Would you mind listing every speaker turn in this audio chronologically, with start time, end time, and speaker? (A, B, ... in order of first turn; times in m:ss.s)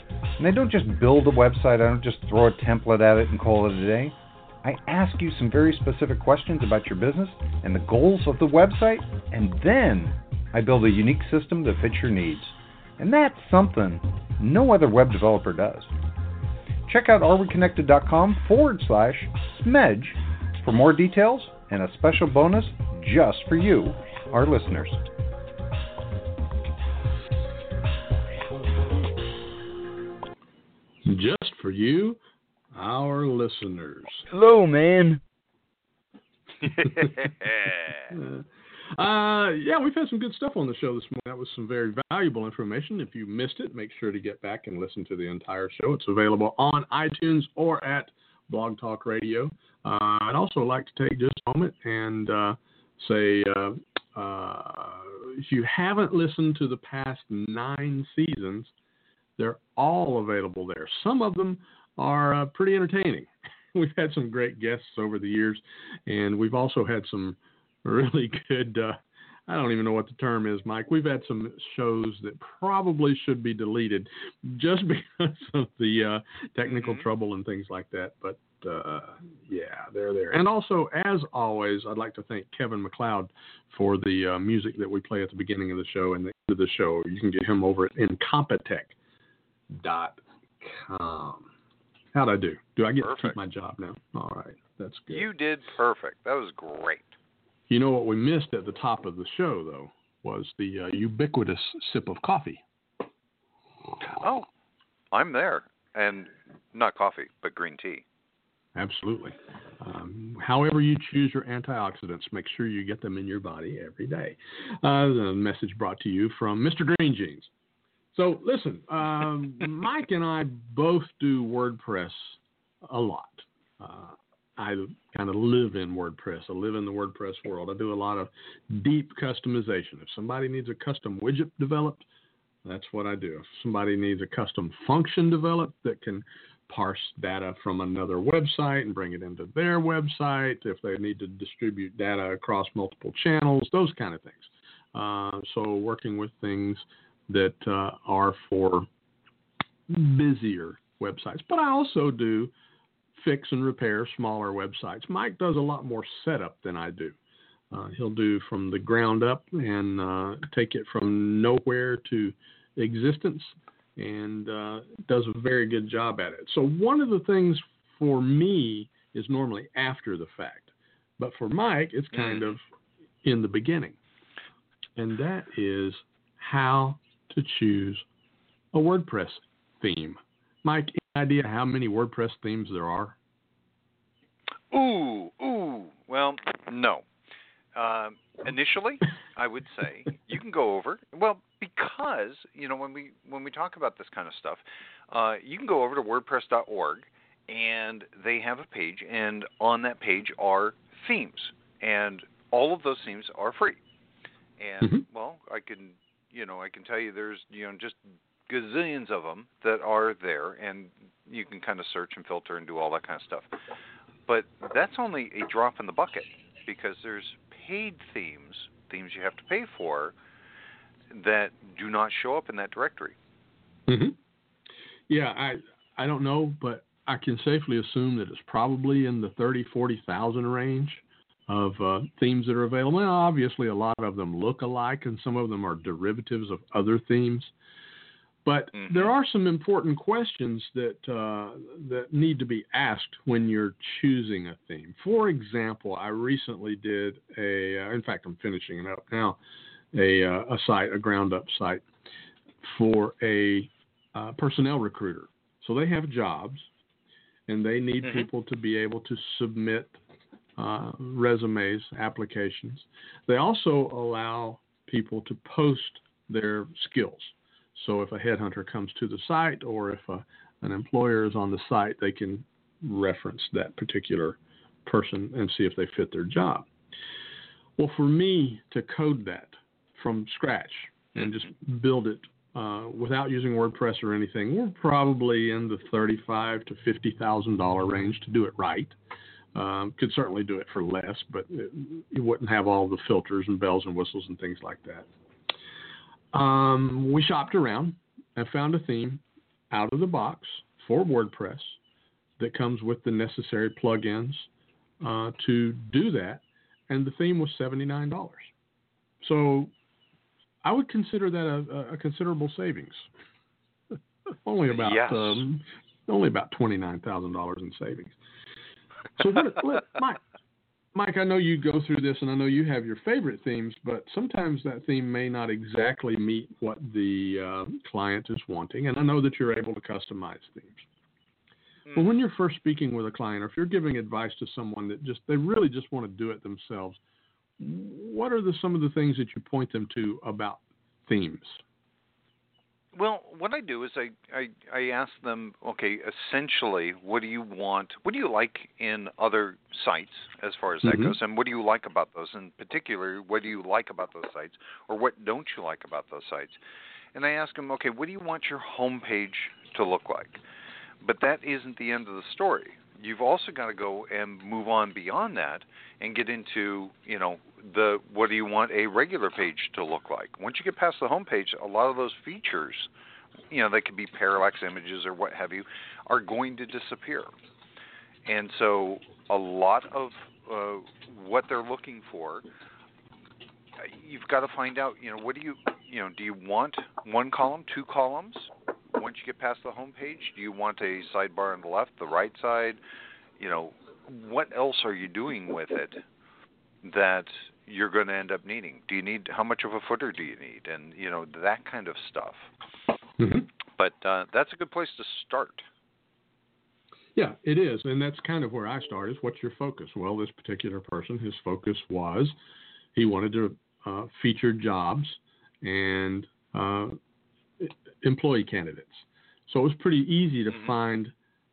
0:00.4-0:15.9 A
0:16.9-0:25.0 A
0:31.0-0:32.2 B
0:32.7-0:34.3 B
0:34.3-0:35.2 A
0:36.6-0:38.1 C
0:38.1-0:58.7 B
0:59.4-1:29.0 B
1:16.7-1:17.1 C
1:29.7-1:31.5 B
1:32.1-1:35.3 B
1:33.0-1:33.4 C
1:35.1-1:37.1 C
1:37.7-1:42.6 B
1:44.2-1:44.5 C
1:45.1-1:48.0 C
1:48.8-1:57.5 B
1:58.1-2:12.1 B
2:12.6-2:28.9 B
2:29.9-2:32.5 B
2:33.2-2:37.2 B
2:37.7-2:52.6 B
2:52.1-2:52.6 C
2:53.2-2:54.0 B
2:55.0-2:58.0 B
2:58.7-3:03.2 B
3:04.7-3:07.0 C
3:07.8-3:23.8 C
3:24.6-3:33.5 C
3:34.3-3:40.2 C
3:41.1-3:43.2 C
3:43.9-3:44.2 B
3:45.1-3:57.5 B
3:58.4-4:09.4 B
3:58.7-3:59.1 C
4:09.9-4:11.8 B
4:12.6-4:16.7 B
4:17.5-4:20.0 B
4:18.0-4:18.3 C
4:20.6-4:36.7 B
4:37.8-4:49.0 B
4:49.5-4:55.1 B
4:56.3-5:01.8 B
5:02.4-5:04.5 B
5:05.0-5:08.5 B
5:09.2-5:09.7 B
5:10.6-5:13.1 B
5:14.4-5:18.2 B
5:14.7-5:15.4 C
5:19.2-5:20.2 B
5:20.9-5:30.8 B
5:31.9-5:32.1 C
5:31.9-5:37.0 B
5:37.6-5:41.6 B
5:43.0-5:56.6 C
5:50.8-5:51.2 B
5:57.2-6:00.4 C
6:01.0-6:12.9 C
6:13.5-6:17.3 C
6:18.3-6:22.5 C
6:23.8-6:32.8 C
6:33.4-6:36.0 C
6:36.8-6:42.5 C
6:43.2-6:43.5 B
6:43.8-6:45.7 C
6:47.2-6:52.4 B
6:53.0-6:57.0 B
6:57.6-7:01.1 B
7:00.5-7:00.7 C